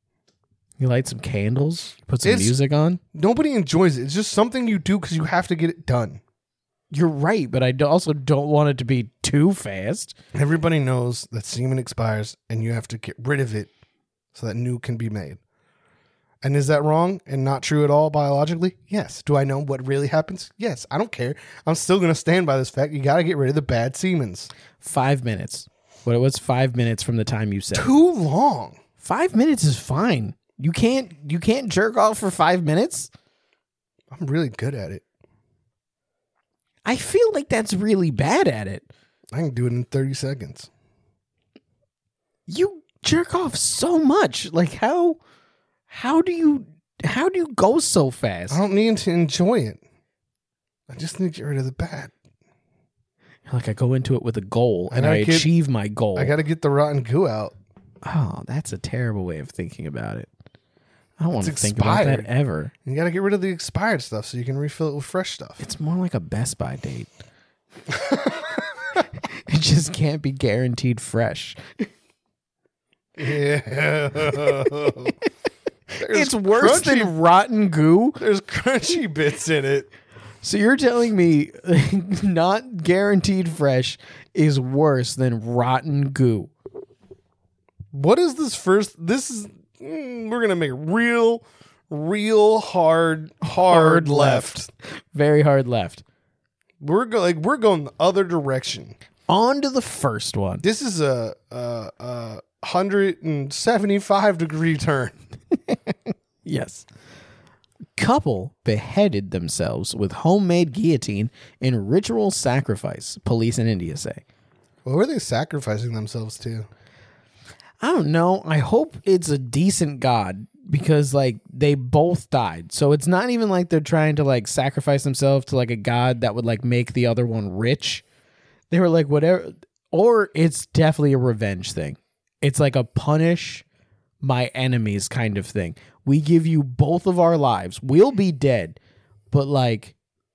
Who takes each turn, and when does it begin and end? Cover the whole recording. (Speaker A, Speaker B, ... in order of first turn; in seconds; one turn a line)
Speaker A: 0.8-3.0
Speaker B: 2.2-2.5
Speaker B: 3.1-6.2
Speaker A: 6.9-10.1
Speaker B: 10.3-13.7
Speaker B: 14.3-15.4
Speaker B: 16.4-24.5
Speaker A: 24.8-27.9
Speaker B: 27.7-28.8
Speaker A: 29.0-33.1
Speaker B: 34.1-35.0
Speaker A: 36.8-38.9
Speaker B: 39.3-40.7
Speaker A: 42.5-45.2
Speaker A: 45.9-48.6
Speaker B: 48.5-49.8
Speaker B: 50.9-52.1
Speaker A: 53.5-56.3
Speaker B: 54.9-55.5
Speaker B: 56.1-57.5
Speaker A: 58.0-60.3
Speaker A: 61.2-62.7
Speaker B: 61.4-62.3
Speaker B: 62.8-65.6
Speaker A: 65.6-67.1
Speaker B: 67.9-68.6
Speaker A: 69.2-71.8
Speaker B: 73.2-75.2
Speaker B: 76.0-77.1
Speaker A: 76.0-78.2
Speaker B: 78.2-79.9
Speaker A: 80.4-86.5
Speaker B: 87.9-94.7
Speaker A: 93.5-96.0
Speaker B: 96.8-99.0
Speaker A: 99.3-100.6
Speaker B: 100.6-105.2
Speaker A: 106.4-106.8
Speaker A: 108.0-114.2
Speaker B: 114.8-116.7
Speaker A: 117.8-128.0
Speaker A: 128.7-133.6
Speaker A: 134.2-138.8
Speaker A: 139.3-139.9